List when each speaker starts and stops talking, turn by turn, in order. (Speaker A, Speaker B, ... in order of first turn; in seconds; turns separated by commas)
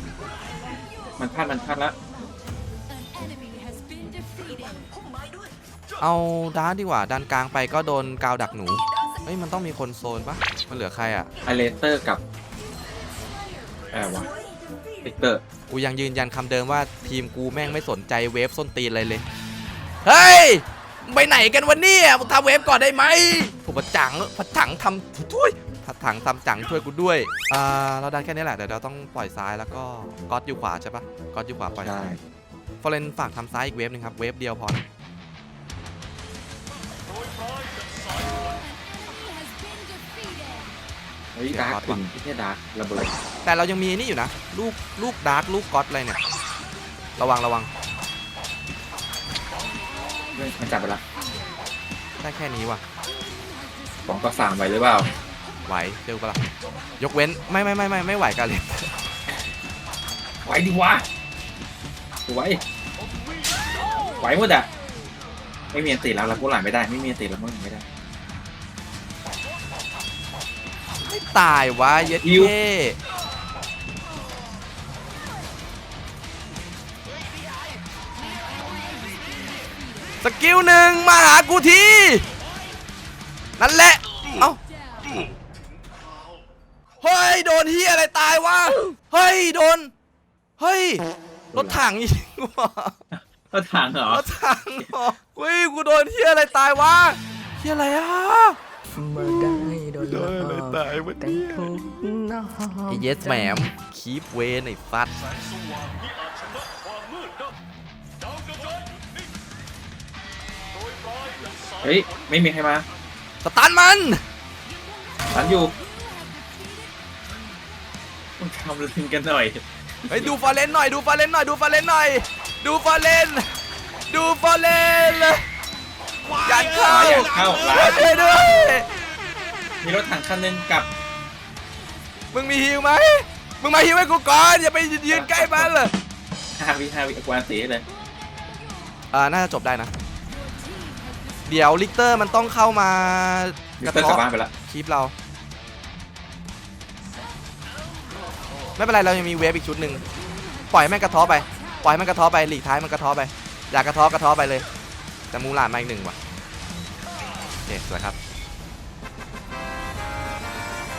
Speaker A: 1.2-1.9, Speaker B: 6.0-11.3, Speaker A: 11.4-12.2, Speaker A: 13.9-14.3, Speaker A: 15.0-15.4, Speaker B: 15.7-19.2, Speaker B: 20.1-32.2, Speaker A: 31.8-32.2, Speaker B: 32.8-34.9, Speaker A: 41.4-43.2, Speaker B: 41.5-42.0, Speaker B: 43.4-46.2, Speaker B: 47.2-47.7, Speaker A: 50.4-51.0, Speaker B: 52.2-52.8, Speaker A: 54.1-55.1, Speaker B: 55.7-56.4, Speaker B: 57.0-59.0, Speaker A: 60.5-61.0, Speaker A: 62.3-62.6, Speaker A: 64.2-64.7, Speaker A: 65.7-67.8, Speaker B: 71.0-73.0, Speaker A: 72.2-72.5, Speaker B: 80.2-82.2, Speaker B: 83.6-84.6, Speaker B: 87.0-89.9, Speaker B: 90.6-91.0, Speaker A: 91.5-91.8, Speaker B: 91.5-93.0, Speaker A: 93.1-94.2, Speaker B: 94.1-98.6, Speaker C: 99.0-103.6, Speaker B: 99.2-101.7, Speaker B: 102.9-105.1, Speaker A: 111.8-112.8, Speaker B: 113.4-114.2, Speaker A: 115.3-115.7, Speaker A: 118.4-120.3, Speaker B: 120.1-123.5, Speaker B: 124.1-125.4, Speaker B: 126.4-128.9, Speaker A: 126.8-128.1, Speaker A: 129.8-130.9, Speaker B: 132.3-135.9, Speaker A: 135.1-135.7, Speaker A: 136.5-137.9, Speaker B: 139.1-139.9, Speaker B: 141.5-145.1, Speaker A: 143.8-144.5, Speaker B: 148.8-150.0, Speaker B: 150.7-154.7, Speaker B: 155.3-156.2, Speaker B: 157.7-158.2